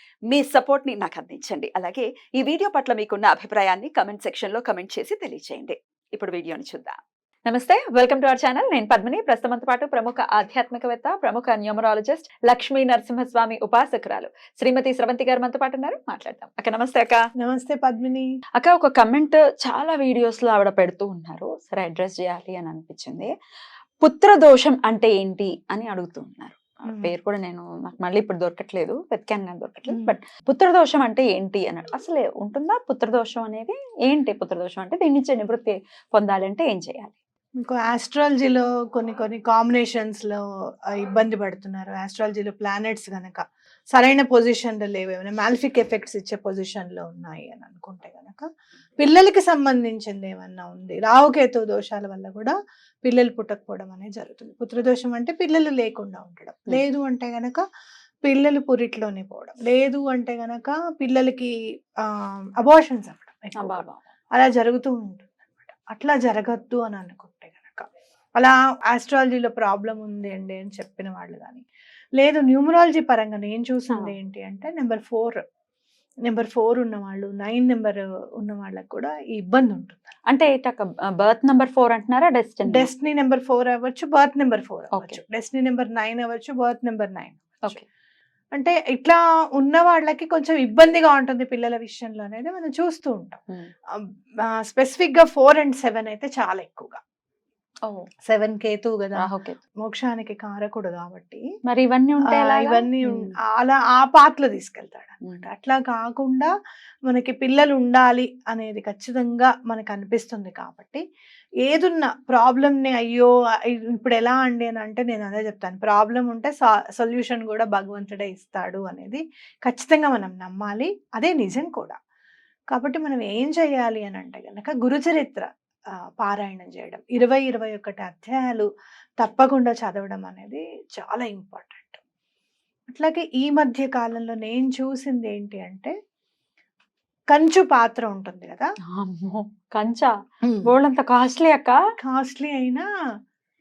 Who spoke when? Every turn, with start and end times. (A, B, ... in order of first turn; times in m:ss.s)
0:00.3-0:17.2 A
0:17.4-0:18.3 B
0:18.6-0:23.3 A
0:24.0-0:37.2 A
0:29.9-0:30.2 B
0:37.6-0:40.4 B
0:41.0-0:43.4 B
0:43.9-0:48.5 B
0:49.0-0:57.6 B
0:58.2-1:01.5 B
1:02.0-1:03.8 B
1:03.6-1:04.0 A
1:04.4-1:07.8 B
1:08.4-1:11.6 B
1:12.2-1:15.4 B
1:16.3-1:20.1 B
1:20.3-1:22.9 A
1:22.7-1:27.8 B
1:28.5-1:33.4 B
1:34.0-1:37.0 B
1:38.3-1:39.3 B
1:39.2-1:39.6 A
1:39.8-1:41.4 B
1:41.6-1:43.3 A
1:42.3-1:46.5 B
1:47.1-1:51.0 B
1:51.6-2:02.0 B
2:02.7-2:05.5 B
2:06.2-2:08.7 B
2:09.2-2:12.0 B
2:12.9-2:15.9 B
2:17.3-2:18.7 B
2:18.9-2:20.1 A
2:20.4-2:20.7 B
2:20.6-2:21.8 A
2:22.0-2:22.8 B